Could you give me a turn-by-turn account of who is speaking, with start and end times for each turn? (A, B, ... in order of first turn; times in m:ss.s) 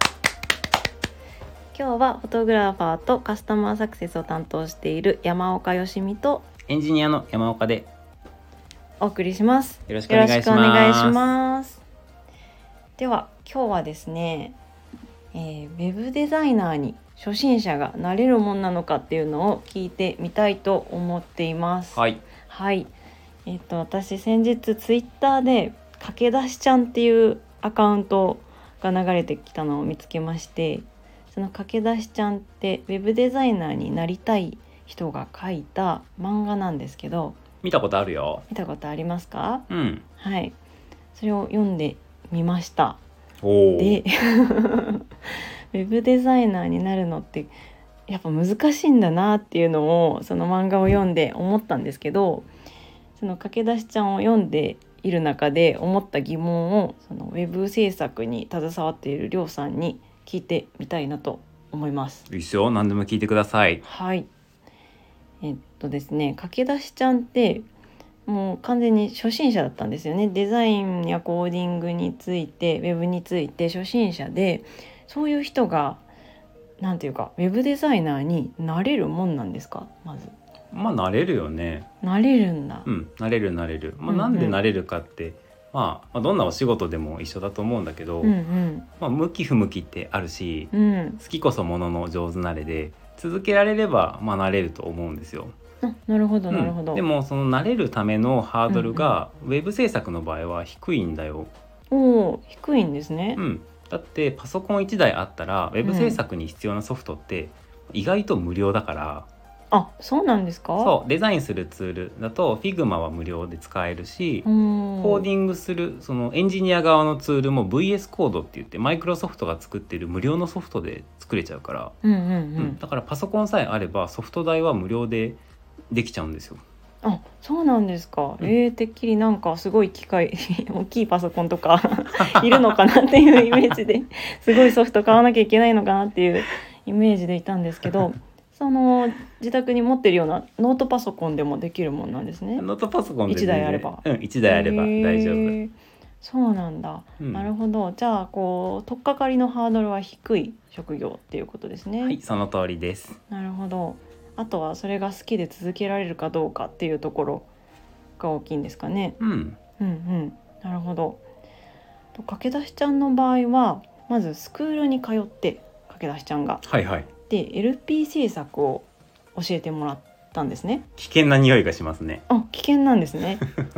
0:01.7-0:06.4 A
0:06.7-0:07.9 B
0:09.0-0:11.8 A
0:09.9-0:11.2 B
0:13.0-0:14.6 A
0:15.3-0:22.9 A
0:21.9-0:22.2 B
0:23.4-0:37.4 A
0:37.6-0:38.4 B
0:38.5-0:39.6 A
0:39.7-0:40.0 B
0:40.2-0:40.5 A
0:41.1-0:43.0 A
0:43.4-0:44.0 B
0:43.8-0:45.0 A
0:45.7-0:47.5 A
0:48.1-0:52.5 A
0:53.2-1:02.3 A
1:02.3-1:03.8 B
1:03.8-1:04.3 A
1:05.4-1:07.7 A
1:08.3-1:16.0 A
1:16.8-1:20.3 A
1:20.7-1:21.9 B
1:22.0-1:22.9 A
1:22.8-1:28.4 B
1:24.1-1:24.6 A
1:28.2-1:28.9 A
1:29.0-1:35.5 B
1:30.7-1:31.2 A
1:35.8-1:37.0 A
1:36.5-1:41.5 B
1:38.7-1:39.1 A
1:41.9-1:43.4 A
1:43.4-1:49.3 B
1:45.8-1:46.2 A
1:49.7-1:51.0 A
1:50.8-1:54.5 B
1:54.4-1:55.3 A
1:55.0-2:01.9 B
2:02.0-2:02.8 A
2:02.6-2:05.4 B
2:05.9-2:06.6 B
2:07.0-2:22.6 A
2:22.6-2:25.6 B
2:23.3-2:32.2 A
2:27.2-2:27.5 B
2:32.0-2:33.2 B
2:33.3-2:37.5 A
2:38.2-2:39.2 A
2:39.2-2:39.6 B
2:39.8-2:41.2 A
2:42.1-2:46.6 A
2:46.6-2:47.1 B
2:47.3-2:50.8 A
2:51.0-2:52.2 B
2:52.3-2:53.4 A